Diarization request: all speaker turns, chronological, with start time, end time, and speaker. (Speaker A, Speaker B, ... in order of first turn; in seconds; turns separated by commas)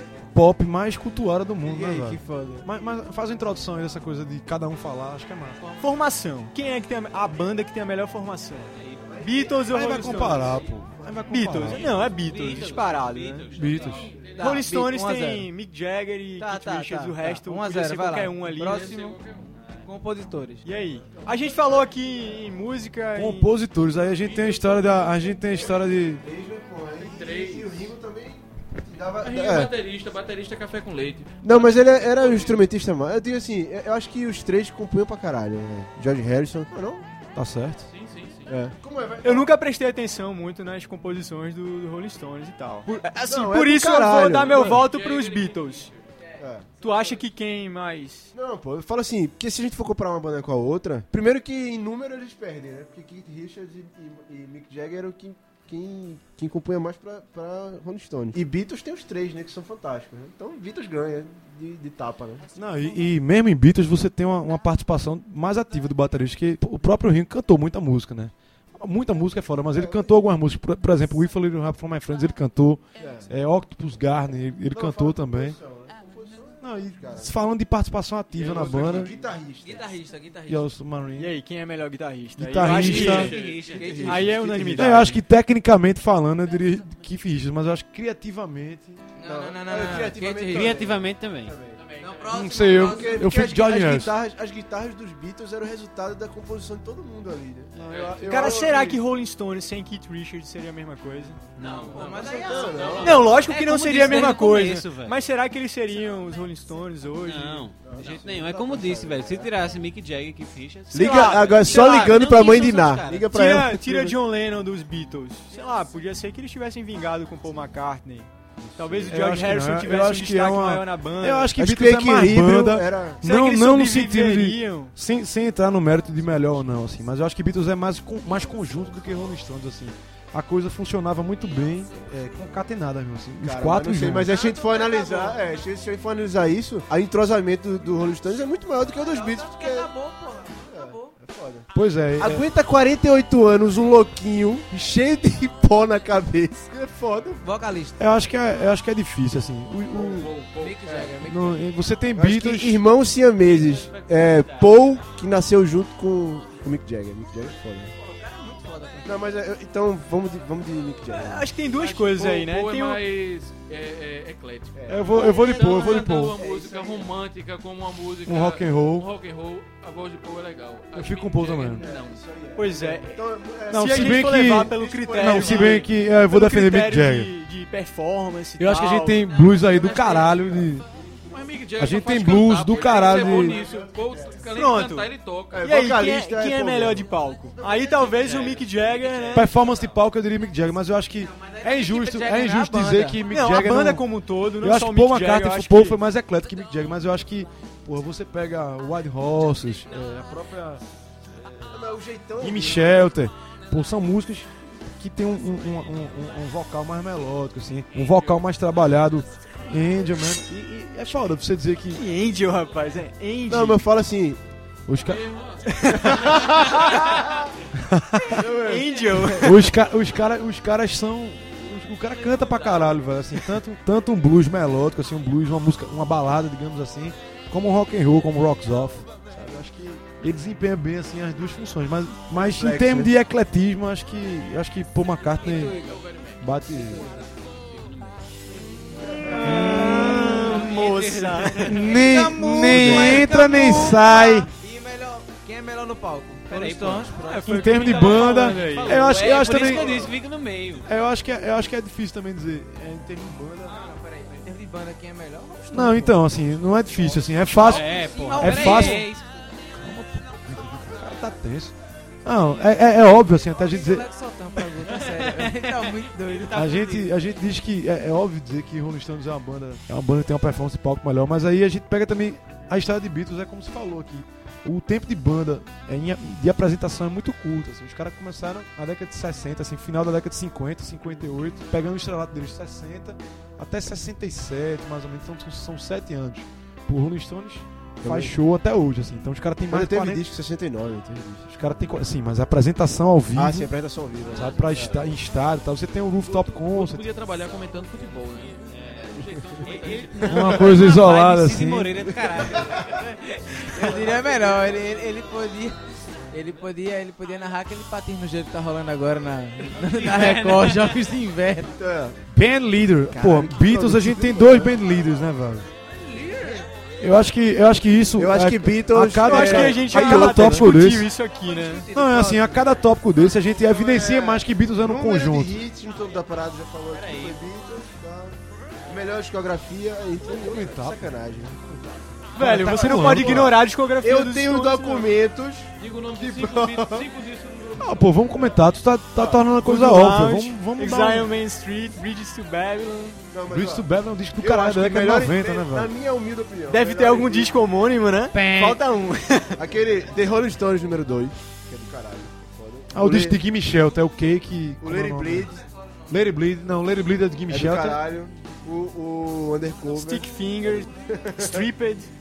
Speaker A: 0.3-5.8, Speaker B: 1.7-2.7, Speaker C: 5.8-10.5, Speaker D: 8.7-9.6, Speaker E: 9.1-11.3, Speaker A: 9.7-11.9, Speaker C: 11.3-13.5, Speaker D: 11.8-14.2, Speaker A: 13.5-14.2, Speaker F: 13.5-14.6, Speaker E: 14.1-14.4, Speaker C: 14.4-18.8, Speaker B: 14.4-15.5, Speaker B: 16.4-19.2, Speaker F: 18.6-19.6, Speaker B: 19.9-20.6, Speaker C: 20.6-23.5, Speaker E: 21.1-21.8, Speaker A: 23.1-26.2, Speaker F: 24.2-25.1, Speaker E: 26.2-29.7, Speaker F: 27.0-27.9, Speaker F: 29.2-32.6, Speaker E: 31.4-37.1, Speaker A: 37.4-37.9, Speaker F: 37.9-38.6, Speaker E: 38.5-39.5, Speaker C: 39.2-45.9, Speaker E: 43.2-44.9, Speaker F: 44.5-46.1, Speaker E: 46.4-46.7, Speaker C: 46.7-48.3, Speaker E: 48.3-62.5, Speaker A: 62.6-75.6, Speaker E: 69.7-70.1, Speaker E: 73.0-73.3, Speaker E: 74.7-77.3, Speaker A: 76.6-79.1, Speaker F: 78.3-79.1, Speaker E: 78.4-80.0, Speaker B: 79.6-80.7, Speaker A: 80.5-81.3, Speaker C: 81.2-83.4, Speaker A: 82.4-83.3, Speaker F: 82.7-84.1, Speaker D: 83.0-84.3, Speaker B: 83.8-84.3, Speaker E: 83.8-85.1, Speaker C: 84.0-85.1, Speaker A: 84.8-89.0, Speaker B: 89.2-90.8, Speaker E: 89.2-91.8, Speaker D: 90.5-91.6, Speaker F: 91.8-92.6, Speaker B: 92.0-93.3, Speaker A: 92.3-94.1, Speaker E: 92.7-97.7, Speaker A: 97.7-99.0, Speaker F: 97.8-98.5, Speaker C: 98.2-101.5, Speaker E: 98.4-98.7, Speaker D: 101.6-102.1, Speaker F: 101.6-103.5, Speaker B: 101.9-104.4, Speaker E: 102.0-103.3, Speaker C: 103.0-107.7, Speaker D: 103.7-105.2, Speaker D: 107.2-113.3, Speaker E: 107.8-109.5, Speaker E: 110.9-114.2, Speaker C: 111.0-121.5, Speaker E: 118.6-119.1, Speaker A: 119.1-134.3, Speaker E: 121.5-123.2, Speaker C: 123.2-125.0, Speaker E: 133.4-139.9, Speaker B: 134.3-135.4, Speaker B: 139.0-141.1, Speaker E: 140.6-147.4, Speaker A: 141.7-142.4, Speaker B: 147.4-148.0, Speaker A: 148.0-150.3, Speaker F: 149.9-151.0, Speaker B: 150.6-151.6, Speaker E: 150.9-151.1, Speaker A: 151.2-152.8, Speaker E: 152.2-157.9, Speaker D: 153.6-154.7, Speaker B: 158.0-159.2, Speaker E: 159.1-161.5, Speaker C: 161.1-163.0, Speaker F: 161.8-172.2, Speaker E: 164.8-167.1, Speaker A: 164.9-166.4, Speaker A: 168.3-169.1, Speaker A: 170.9-171.8, Speaker E: 171.8-175.8, Speaker C: 172.6-173.2, Speaker A: 173.7-177.3, Speaker C: 173.7-179.4, Speaker A: 178.6-180.8, Speaker B: 179.7-180.3, Speaker E: 180.2-181.6, Speaker F: 181.3-185.7, Speaker A: 181.8-183.6, Speaker E: 182.9-184.5, Speaker C: 184.5-185.1, Speaker E: 185.5-187.1, Speaker C: 185.6-189.4, Speaker D: 187.9-189.6, Speaker A: 189.3-194.1, Speaker B: 191.2-193.2, Speaker C: 193.2-196.0, Speaker A: 194.6-200.8, Speaker A: 201.4-201.7, Speaker E: 201.7-203.1, Speaker A: 202.4-212.0, Speaker F: 208.0-208.5, Speaker C: 211.9-213.8, Speaker E: 213.5-214.4, Speaker A: 214.9-215.2, Speaker F: 215.1-217.5, Speaker C: 215.7-216.0, Speaker E: 215.9-217.5, Speaker A: 217.8-218.4, Speaker E: 218.3-219.6, Speaker C: 218.4-219.6, Speaker A: 219.4-235.8, Speaker D: 222.3-223.0, Speaker E: 232.3-233.1, Speaker D: 235.4-236.1, Speaker F: 235.7-237.8, Speaker A: 236.4-237.1, Speaker D: 236.7-238.1, Speaker F: 238.6-239.2, Speaker C: 239.2-241.7, Speaker A: 239.4-240.7, Speaker D: 239.6-241.9, Speaker A: 241.6-244.5, Speaker B: 241.8-248.0, Speaker D: 242.7-243.4, Speaker D: 246.5-247.2, Speaker C: 247.2-249.2, Speaker A: 247.5-250.1, Speaker D: 248.1-250.9, Speaker F: 249.4-249.9, Speaker A: 250.8-253.8, Speaker B: 253.7-256.2, Speaker A: 255.7-259.1, Speaker D: 257.5-259.2, Speaker B: 257.6-259.2, Speaker A: 259.7-264.1, Speaker B: 263.6-266.8, Speaker D: 264.8-267.2, Speaker A: 266.5-290.2, Speaker E: 288.0-288.4, Speaker E: 289.7-291.5, Speaker A: 291.5-293.7, Speaker E: 293.3-295.1, Speaker A: 294.3-297.1, Speaker D: 294.4-294.9, Speaker F: 296.2-300.8, Speaker D: 298.7-304.0, Speaker A: 300.2-302.1, Speaker E: 302.5-302.8, Speaker B: 303.5-311.7, Speaker E: 303.8-304.9, Speaker D: 309.8-310.9, Speaker E: 311.8-312.2, Speaker A: 312.3-315.7, Speaker E: 313.1-314.8, Speaker F: 316.0-316.7, Speaker A: 317.0-321.1, Speaker E: 318.2-320.7, Speaker C: 319.2-321.9, Speaker F: 321.6-321.9, Speaker A: 321.9-325.6, Speaker E: 321.9-322.6, Speaker E: 323.6-332.0, Speaker D: 326.9-327.4, Speaker A: 330.4-331.1, Speaker A: 332.4-333.6, Speaker C: 332.4-335.2, Speaker E: 332.9-337.1, Speaker F: 335.8-338.6, Speaker A: 337.8-341.3, Speaker E: 339.2-339.5, Speaker C: 339.6-343.3, Speaker E: 343.3-347.5, Speaker A: 343.5-345.9, Speaker C: 346.7-349.6, Speaker A: 348.4-348.8, Speaker E: 349.6-353.4, Speaker A: 352.9-355.5, Speaker E: 354.8-355.6, Speaker A: 356.1-358.0, Speaker E: 357.5-361.7, Speaker C: 359.9-362.1